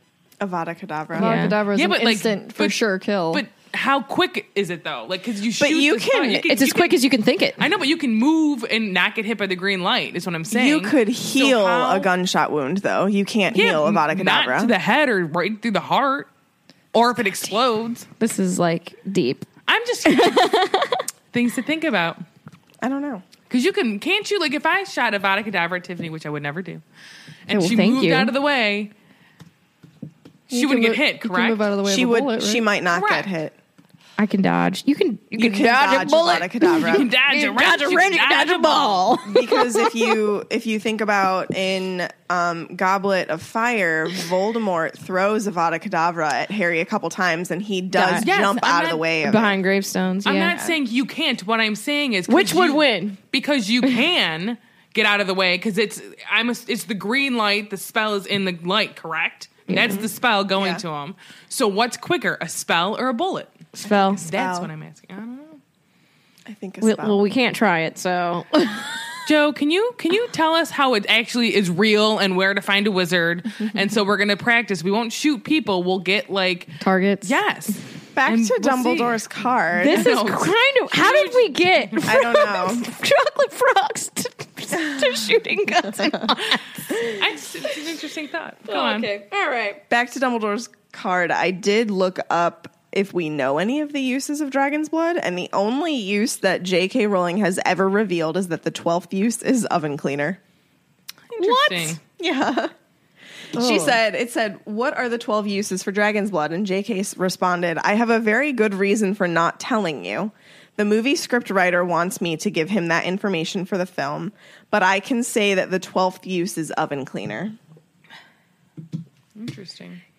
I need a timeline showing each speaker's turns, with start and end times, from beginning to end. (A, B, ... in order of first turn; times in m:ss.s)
0:00.4-0:01.4 A
0:01.1-0:03.4 B
0:01.2-0:01.6 C
0:01.7-0:07.0 D
0:05.6-0:06.6 A
0:06.5-0:07.6 C
0:07.6-0:12.1 D
0:10.5-0:14.7 A
0:13.5-0:16.3 D
0:16.9-0:18.1 D
0:18.2-0:19.5 C
0:19.7-0:20.6 D
0:20.1-0:21.0 C
0:21.3-0:22.2 D
0:22.8-0:23.2 A
0:23.5-0:26.8 D
0:27.5-0:28.9 D
0:27.5-0:28.3 C
0:30.5-0:31.7 D
0:30.5-0:32.7 B
0:31.8-0:33.6 A
0:32.9-0:33.3 D
0:34.2-0:39.9 C
0:35.4-0:37.1 A
0:36.8-0:39.2 D
0:39.2-0:49.6 A
0:47.9-0:50.6 C
0:48.2-0:49.0 D
0:50.2-1:05.6 D
0:52.3-0:53.2 C
0:59.7-1:00.0 C
0:59.7-1:00.8 A
1:03.8-1:04.2 C
1:03.8-1:04.7 A
1:06.5-1:07.2 A
1:06.8-1:09.2 C
1:09.3-1:19.2 D
1:16.8-1:17.4 C
1:18.2-1:20.1 A
1:19.8-1:22.1 D
1:19.8-1:27.2 C
1:22.0-1:22.9 A
1:24.7-1:25.3 A
1:26.5-1:29.1 D
1:28.7-1:29.8 C
1:29.9-1:40.4 A
1:41.3-1:42.0 D
1:41.4-1:41.9 C
1:41.4-1:42.7 A
1:43.6-1:57.6 A
1:43.6-1:44.0 B
1:59.4-2:00.0 D